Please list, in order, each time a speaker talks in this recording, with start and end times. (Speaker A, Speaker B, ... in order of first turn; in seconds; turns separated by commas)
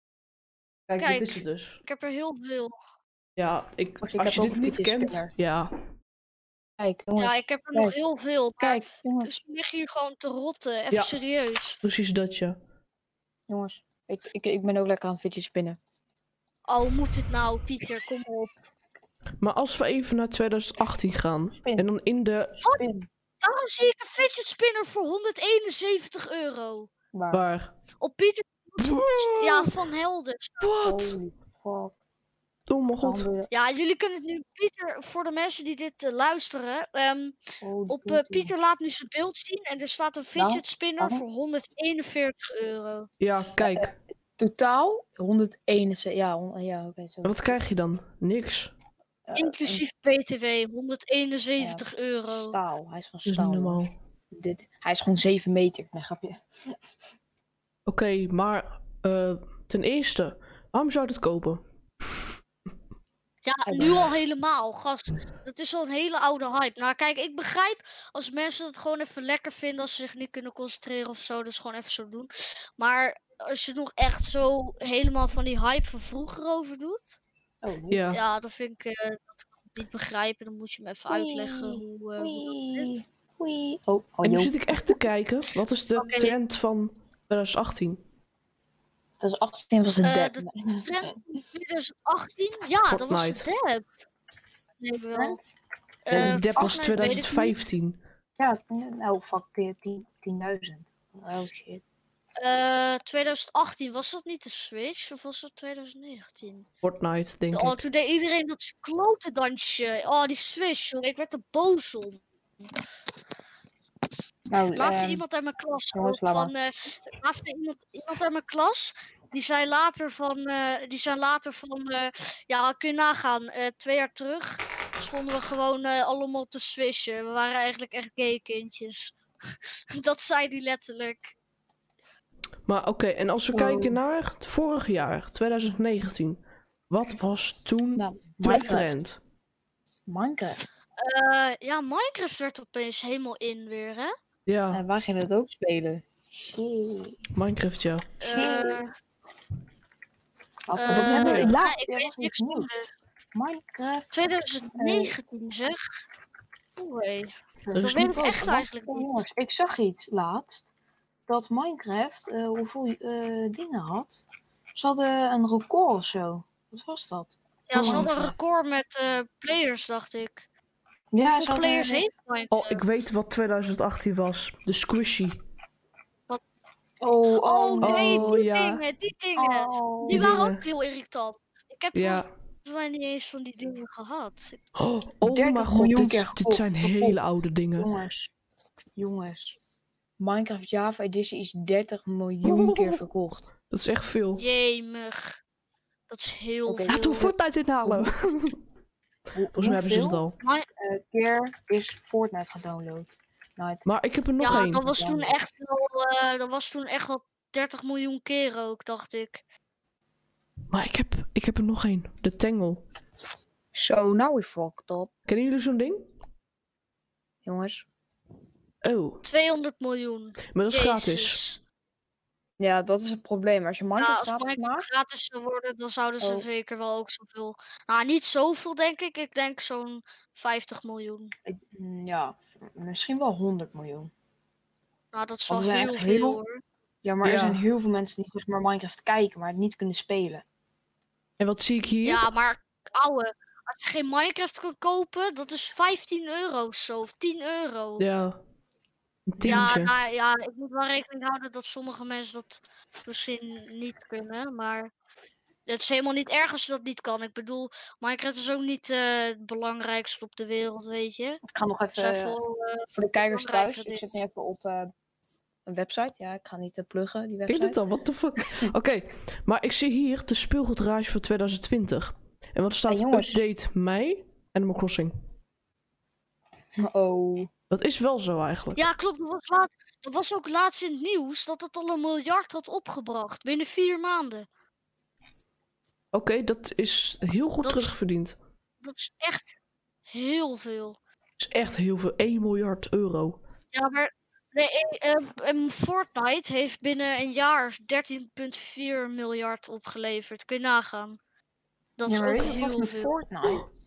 Speaker A: 0.9-1.8, Speaker B: 1.0-2.8, Speaker A: 3.4-5.7, Speaker C: 4.0-5.3, Speaker C: 6.8-8.0, Speaker B: 7.2-11.8, Speaker C: 8.6-9.3, Speaker A: 10.9-11.2, Speaker A: 11.8-12.6, Speaker C: 13.5-15.8, Speaker B: 16.7-18.5, Speaker A: 19.4-22.6, Speaker C: 21.6-21.9, Speaker C: 22.7-23.1, Speaker B: 23.4-26.9, Speaker C: 27.1-27.4, Speaker A: 27.3-27.7, Speaker B: 28.0-30.7, Speaker A: 28.8-29.7, Speaker A: 30.6-31.2, Speaker C: 30.8-31.9, Speaker A: 32.7-33.3, Speaker C: 33.0-33.5, Speaker B: 33.5-37.4, Speaker C: 37.6-38.5, Speaker B: 37.9-43.1, Speaker C: 40.3-41.2, Speaker A: 43.2-43.9, Speaker C: 43.6-47.6, Speaker A: 47.2-48.7, Speaker C: 49.2-49.8, Speaker B: 49.3-52.6, Speaker C: 51.6-56.7, Speaker A: 53.2-53.9, Speaker A: 57.9-61.6, Speaker B: 63.4-77.2, Speaker C: 63.6-64.1, Speaker C: 77.6-78.0, Speaker A: 77.9-78.2, Speaker B: 78.1-83.0, Speaker C: 81.1-85.0, Speaker A: 84.2-88.0, Speaker B: 86.0-86.3, Speaker C: 89.2-91.1, Speaker B: 90.0-93.8, Speaker A: 92.9-93.5, Speaker B: 94.8-95.4, Speaker C: 95.1-95.4, Speaker B: 96.0-97.7, Speaker C: 96.1-97.2, Speaker A: 96.1-98.0, Speaker C: 98.4-101.8, Speaker B: 102.4-106.7, Speaker A: 106.8-107.8, Speaker B: 107.5-112.7, Speaker C: 114.5-115.2, Speaker B: 114.7-131.3, Speaker C: 115.9-116.5, Speaker A: 132.7-139.2, Speaker C: 133.5-134.0, Speaker C: 137.9-139.0, Speaker C: 140.1-140.6, Speaker B: 141.0-144.1, Speaker A: 144.5-144.8, Speaker C: 144.7-147.2, Speaker A: 147.3-148.1, Speaker B: 148.2-148.9, Speaker C: 148.2-148.8, Speaker C: 150.7-152.7, Speaker B: 150.7-152.9, Speaker A: 150.9-151.6, Speaker C: 153.3-154.1, Speaker B: 154.1-155.8, Speaker C: 154.7-155.1, Speaker B: 156.8-159.2, Speaker C: 157.6-160.7, Speaker A: 157.7-158.4, Speaker C: 161.3-168.3, Speaker B: 167.7-170.4, Speaker A: 167.7-168.3, Speaker C: 171.1-172.0, Speaker B: 171.3-173.0, Speaker A: 172.5-175.4, Speaker C: 177.0-178.4, Speaker B: 177.4-184.7, Speaker A: 177.8-178.8, Speaker C: 179.3-180.3, Speaker A: 180.1-180.6, Speaker A: 181.9-182.3, Speaker A: 184.8-187.9, Speaker C: 185.2-188.3, Speaker C: 188.9-189.6, Speaker C: 190.2-193.5, Speaker A: 192.4-193.0, Speaker A: 193.7-194.4, Speaker B: 194.4-195.4, Speaker B: 196.1-197.3, Speaker C: 196.7-197.3, Speaker A: 196.9-198.6, Speaker C: 197.8-198.2, Speaker C: 199.3-200.2, Speaker A: 199.5-200.4, Speaker B: 200.4-200.7, Speaker C: 200.8-203.8, Speaker A: 203.8-204.9, Speaker B: 204.4-209.4, Speaker C: 204.4-205.3, Speaker A: 210.7-212.8, Speaker C: 213.7-215.1, Speaker A: 215.3-216.1, Speaker C: 217.4-217.8, Speaker A: 218.8-219.2, Speaker B: 219.2-221.6, Speaker A: 220.5-221.4, Speaker C: 222.6-224.9, Speaker B: 224.0-231.3, Speaker C: 226.2-226.4, Speaker C: 231.5-234.1, Speaker B: 235.1-236.6, Speaker C: 235.5-236.4, Speaker C: 237.0-240.4, Speaker A: 237.2-237.6, Speaker A: 241.4-242.3, Speaker B: 242.0-248.0, Speaker A: 248.0-248.4, Speaker A: 249.3-249.9, Speaker B: 249.4-254.9, Speaker B: 255.7-261.4, Speaker C: 261.5-262.4, Speaker B: 261.9-264.0, Speaker C: 262.9-264.9, Speaker C: 265.6-267.8, Speaker A: 267.5-275.1, Speaker C: 272.9-273.4, Speaker C: 276.8-277.5, Speaker A: 277.7-278.8, Speaker B: 278.8-284.5, Speaker A: 286.1-288.4, Speaker B: 287.6-287.9, Speaker B: 288.8-289.6, Speaker B: 290.1-291.0, Speaker A: 291.4-293.4, Speaker B: 293.7-301.2, Speaker B: 302.0-303.1, Speaker C: 302.1-303.6